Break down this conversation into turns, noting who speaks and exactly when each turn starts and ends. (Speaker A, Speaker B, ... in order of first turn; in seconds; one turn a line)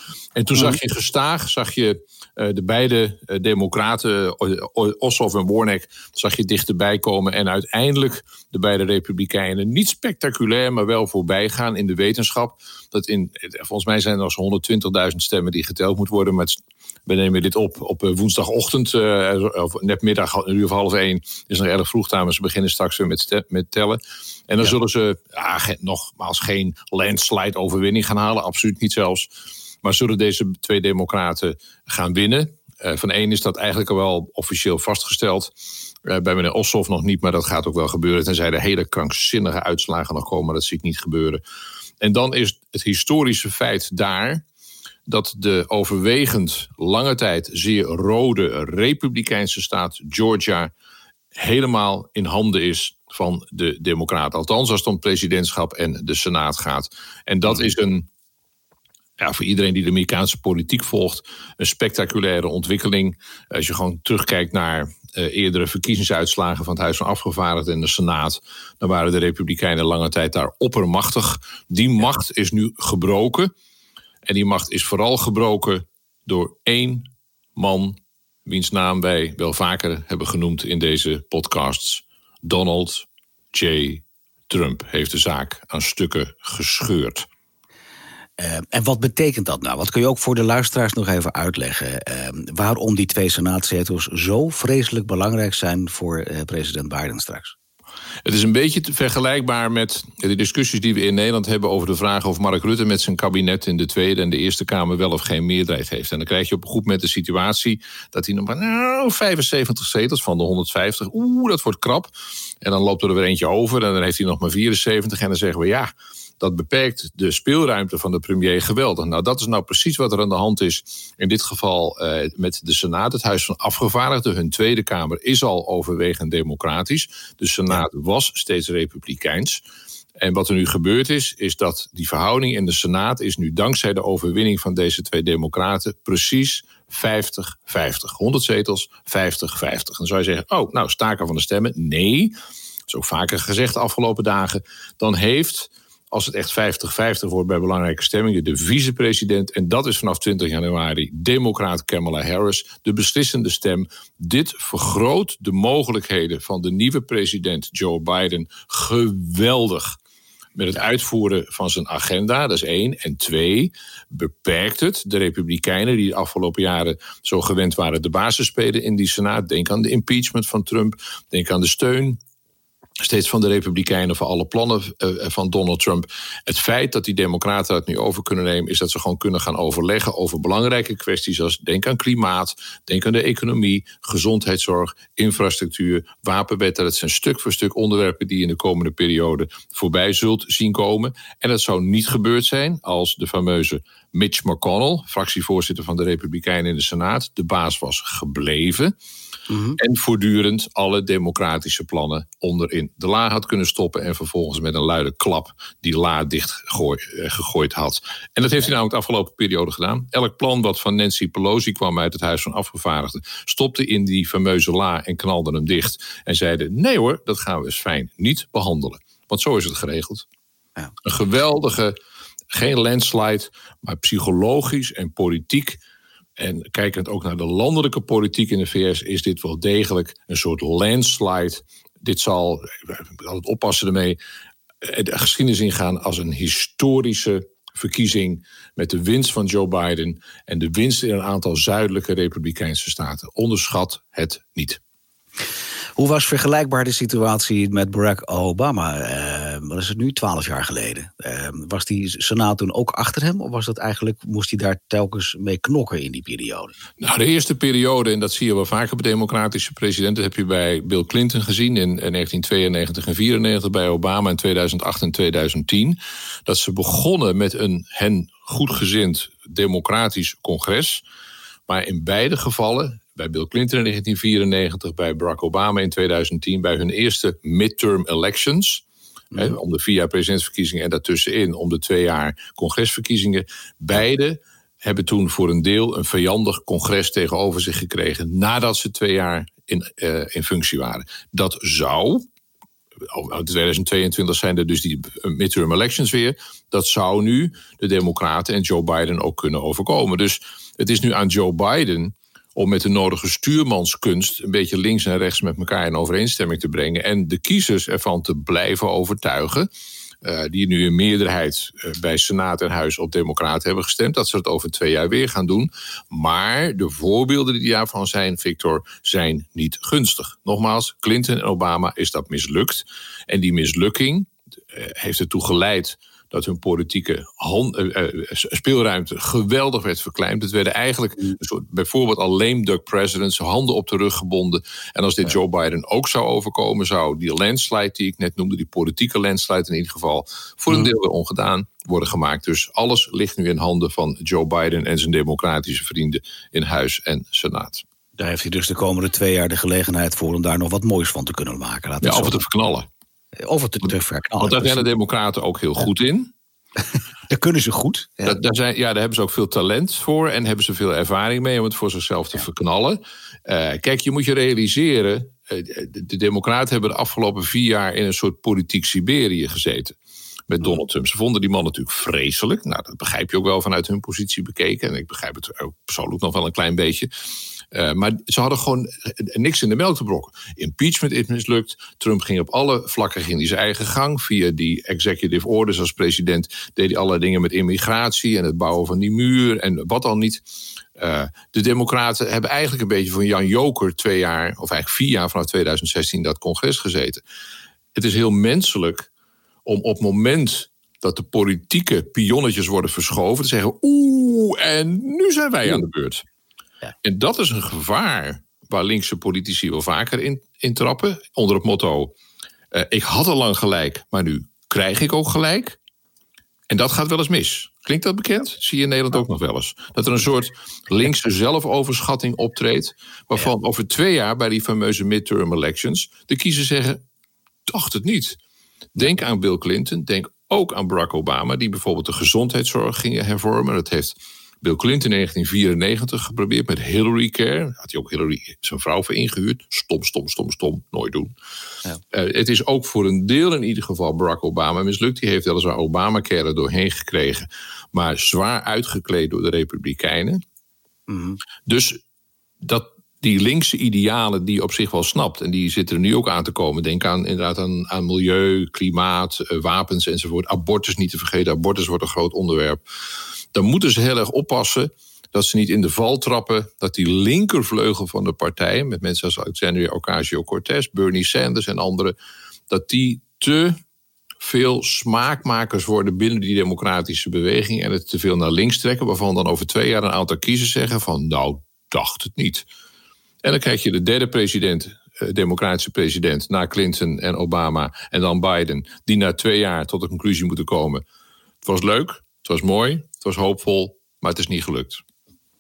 Speaker A: 0.4-29.3
Speaker B: 0.6-0.8
Speaker A: 29.8-35.5
Speaker A: 36.0-41.4
Speaker A: 42.0-44.4
Speaker A: 45.1-50.7
Speaker A: 51.3-58.1
Speaker A: 59.2-73.5
Speaker A: 74.2-87.3
Speaker B: 88.4-97.6
Speaker A: 98.2-112.1
Speaker A: 112.6-129.6
Speaker A: 130.2-142.3
Speaker A: 142.9-160.0
Speaker A: 160.6-172.2
Speaker A: 173.0-198.9
Speaker B: 199.5-199.8
Speaker A: 199.8-220.3
Speaker A: 221.0-222.0
Speaker A: 222.5-225.8
Speaker A: 226.4-234.2
Speaker A: 234.8-244.8
Speaker B: 246.0-256.7
Speaker A: 257.0-271.0
Speaker A: 271.7-278.8
Speaker B: 279.3-279.6
Speaker A: 279.4-292.2
Speaker A: 293.0-309.7
Speaker A: 310.2-347.8
Speaker B: 348.2-352.4
Speaker A: 352.0-352.9
Speaker B: 353.4-354.9
Speaker A: 354.4-356.3
Speaker B: 357.3-358.4
Speaker A: 358.2-370.0
Speaker A: 370.5-377.1
Speaker A: 377.7-390.4
Speaker A: 391.0-397.2
Speaker A: 397.9-399.1
Speaker A: 399.6-406.2
Speaker A: 407.0-412.1
Speaker A: 412.7-415.8
Speaker A: 416.7-427.0
Speaker A: 427.7-428.4
Speaker A: 429.0-441.3
Speaker A: 442.1-450.4
Speaker B: 451.1-451.4
Speaker A: 451.7-452.0
Speaker A: 452.6-462.8
Speaker A: 463.5-472.1
Speaker A: 472.7-473.8
Speaker A: 474.4-482.7
Speaker A: 483.4-491.0
Speaker A: 491.6-495.0